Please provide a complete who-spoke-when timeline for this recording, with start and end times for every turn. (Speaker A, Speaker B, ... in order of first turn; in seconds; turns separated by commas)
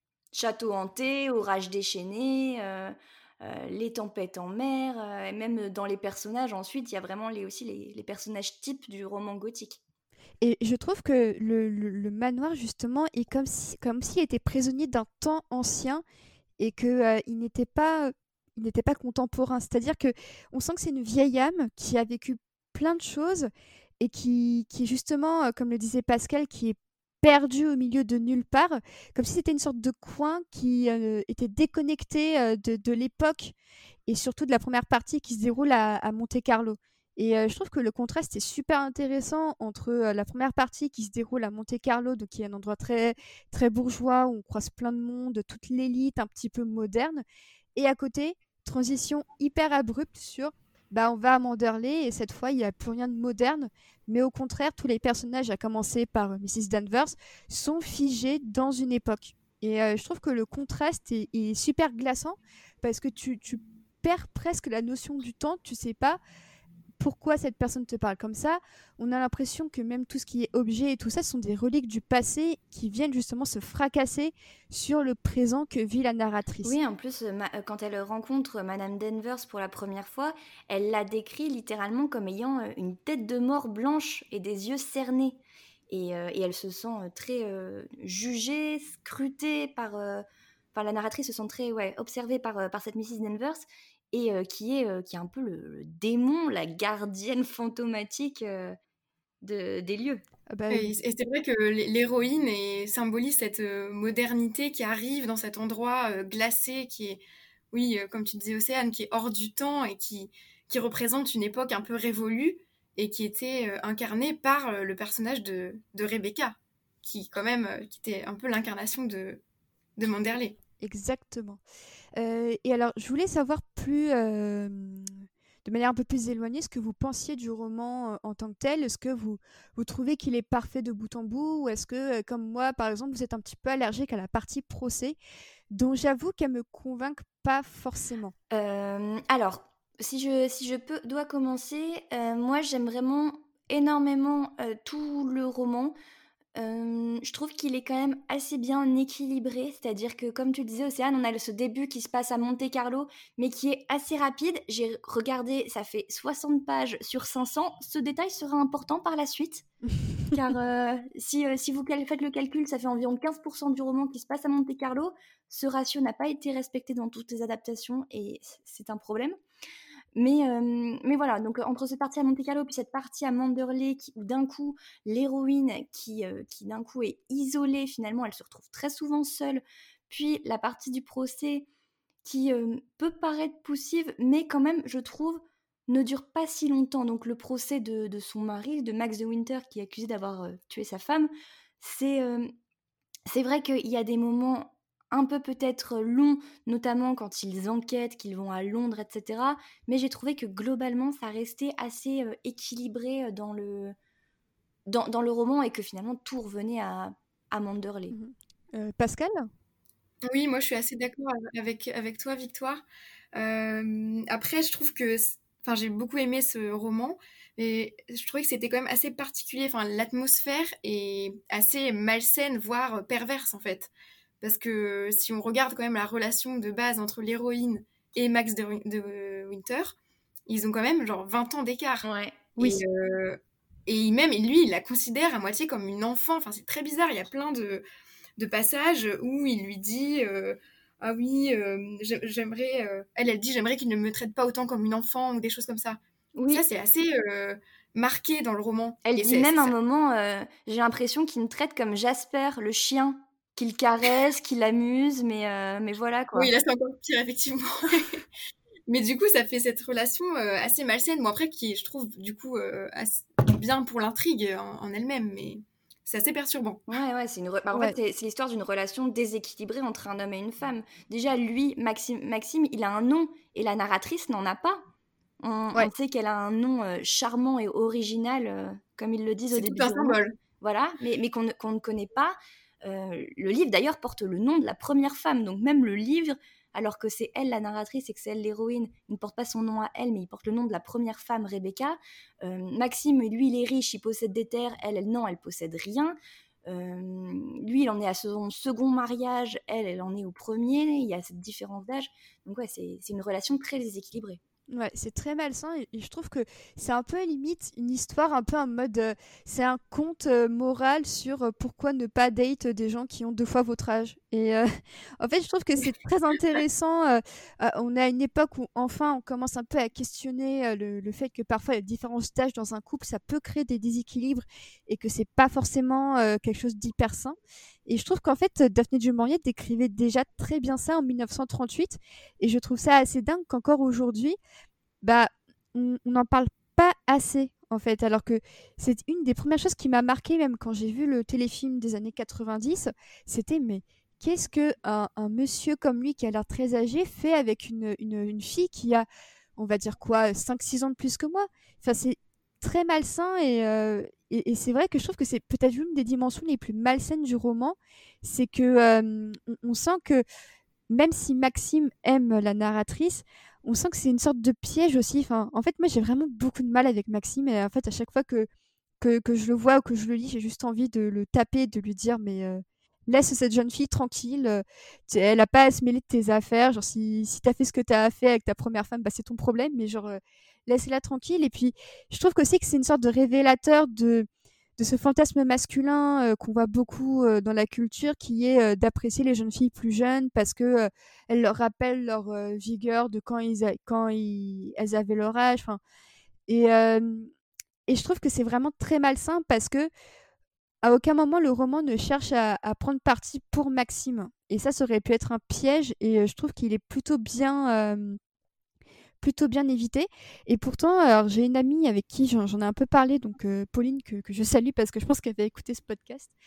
Speaker A: 0.3-9.8, Speaker B: 10.4-16.0, Speaker B: 16.6-33.5, Speaker B: 34.1-47.2, Speaker B: 47.8-66.2, Speaker B: 67.0-76.8, Speaker A: 76.6-85.4, Speaker A: 85.9-98.8, Speaker A: 99.4-100.2, Speaker B: 100.5-101.0, Speaker C: 100.7-119.4, Speaker C: 120.0-120.6, Speaker B: 120.8-121.6, Speaker B: 122.2-135.2, Speaker B: 135.7-138.3, Speaker A: 138.5-145.9, Speaker A: 146.6-159.7, Speaker A: 160.3-169.4, Speaker A: 170.1-181.7, Speaker A: 182.2-192.5, Speaker A: 193.3-203.9, Speaker A: 204.9-208.2, Speaker B: 208.1-209.5, Speaker C: 210.2-212.8, Speaker C: 213.3-223.9, Speaker C: 224.4-229.9, Speaker C: 230.5-232.0, Speaker A: 232.0-232.4, Speaker C: 232.6-237.8, Speaker C: 238.4-249.7, Speaker A: 246.3-246.6, Speaker A: 249.0-256.5, Speaker C: 256.4-258.2, Speaker C: 258.9-266.8, Speaker A: 266.9-274.8, Speaker A: 275.4-304.4, Speaker C: 279.5-280.3, Speaker B: 304.7-334.4, Speaker B: 335.0-349.1, Speaker B: 349.6-360.2, Speaker B: 360.9-368.5, Speaker B: 369.0-384.3, Speaker B: 384.8-395.8, Speaker B: 396.5-397.3, Speaker B: 397.9-399.9, Speaker B: 400.8-408.2, Speaker B: 409.2-416.3